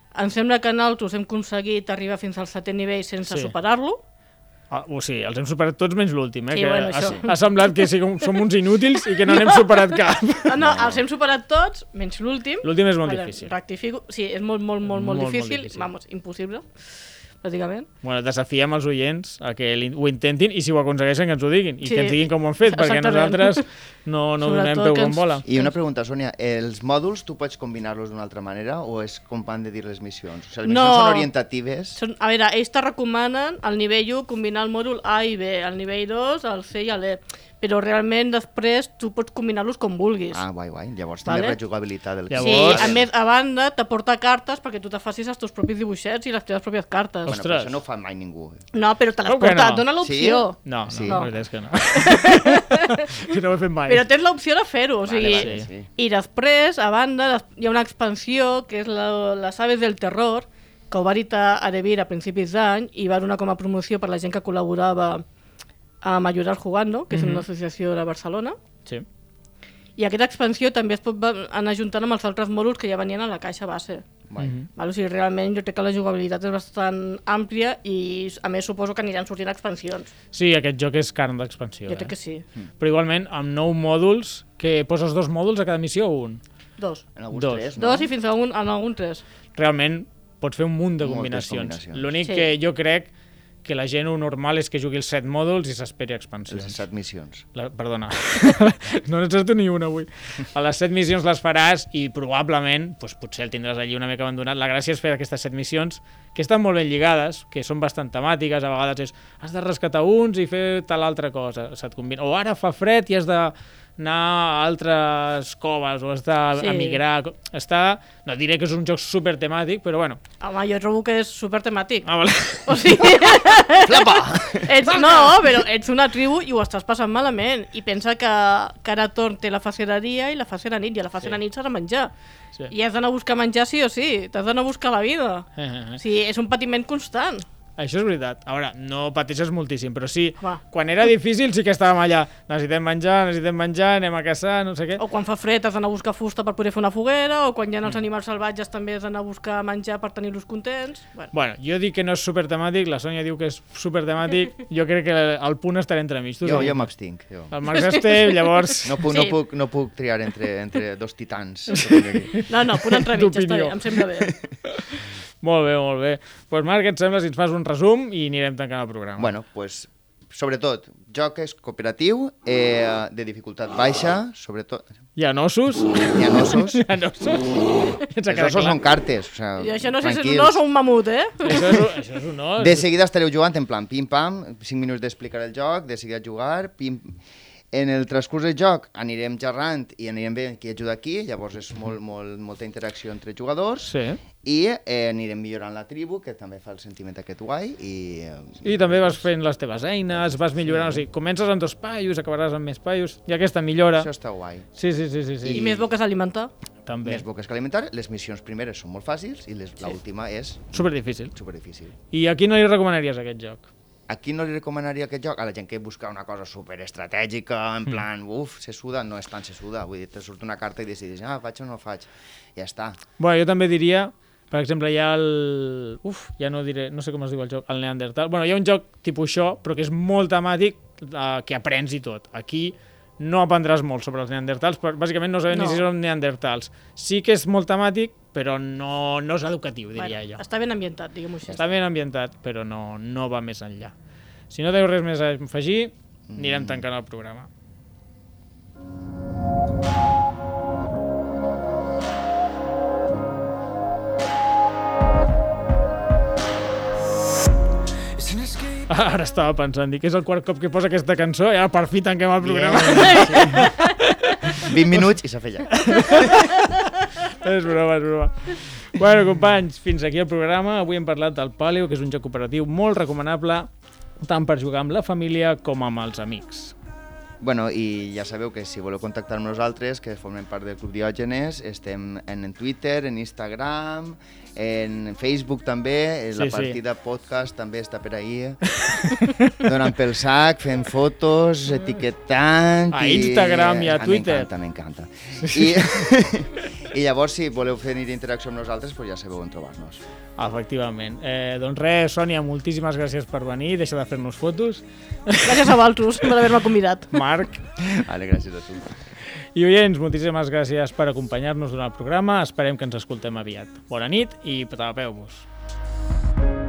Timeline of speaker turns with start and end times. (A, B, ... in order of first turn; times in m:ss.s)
0:00.1-0:04.0 A
0:03.3-0:03.5 B
0:04.7-0:10.6 B
0:06.5-0:07.7 A
0:09.2-0:16.7 A
0:10.6-0:11.0 C
0:12.6-0:13.5 B
0:14.8-0:15.9 B
0:17.4-0:17.9 A
0:18.0-0:25.4 B
0:21.8-0:23.6 A
0:24.4-0:25.7 A
0:25.4-0:32.0 C
0:30.6-0:31.3 A
0:31.9-0:40.4 A
0:40.3-0:43.1 C
0:41.2-0:41.6 A
0:42.3-0:43.0 B
0:42.3-0:47.4 A
0:47.3-0:47.8 B
0:47.3-0:48.6 C
0:48.7-0:51.3 A
0:49.2-0:49.9 B
0:50.0-0:51.2 C
0:50.6-0:54.0 B
0:51.9-0:53.1 A
0:53.9-1:05.2 A
0:55.0-0:55.9 C
0:55.3-0:55.7 B
1:06.0-1:08.6 A
1:07.1-1:07.4 B
1:10.0-1:14.0 A
1:14.4-1:14.7 B
1:14.8-1:20.1 A
1:20.3-1:22.1 B
1:21.9-1:22.4 A
1:22.8-1:26.4 B
1:26.8-1:27.0 A
1:27.2-1:28.1 C
1:27.3-1:27.7 B
1:27.8-1:29.2 A
1:29.5-1:33.1 B
1:31.0-1:32.1 C
1:32.2-1:32.5 A
1:33.6-1:36.8 B
1:36.5-1:37.4 C
1:37.5-2:00.2 B
1:56.6-1:57.0 A
2:00.4-2:02.1 A
2:02.0-2:03.2 B
2:02.6-2:12.1 A
2:03.7-2:04.9 C
2:04.9-2:05.4 B
2:12.7-2:15.4 A
2:15.6-2:16.0 B
2:16.0-2:17.4 A
2:17.8-2:25.0 B
2:25.0-2:31.3 A
2:31.3-2:36.9 B
2:36.4-2:37.5 C
2:37.5-2:39.1 B
2:38.8-2:42.3 C
2:39.1-2:39.3 A
2:41.8-2:43.9 B
2:42.4-2:44.3 A
2:44.7-2:49.3 B
2:49.2-2:54.8 C
2:55.2-2:58.8 B
2:55.9-2:56.8 C
2:58.3-3:00.6 C
2:59.6-3:01.8 A
3:01.4-3:02.9 B
3:02.6-3:07.1 C
3:07.7-3:19.2 C
3:13.8-3:14.2 B
3:18.6-3:24.1 B
3:20.1-3:21.0 C
3:23.9-3:24.7 C
3:24.8-3:25.6 B
3:25.4-3:25.9 C
3:25.5-3:26.5 A
3:26.8-3:27.2 B
3:27.0-3:32.0 C
3:30.7-3:31.3 B
3:32.1-3:33.7 B
3:34.1-3:43.0 C
3:43.2-4:00.4 B
3:55.5-3:55.8 A
4:00.0-4:01.6 A
4:01.5-4:03.9 B
4:04.5-4:07.5 B
4:06.3-4:06.8 C
4:18.8-4:24.7 B
4:22.4-4:23.2 C
4:22.8-4:23.9 A
4:24.6-4:26.4 C
4:25.7-4:33.7 B
4:34.2-4:36.7 B
4:37.4-4:48.7 C
4:46.3-4:46.8 B
4:48.9-4:49.6 B
4:49.5-5:00.0 C
4:52.9-4:54.5 B
4:55.4-4:56.1 B
5:00.4-5:05.7 B
5:05.4-5:07.1 A
5:07.1-5:07.7 B
5:07.8-5:08.9 C
5:09.5-5:15.4 B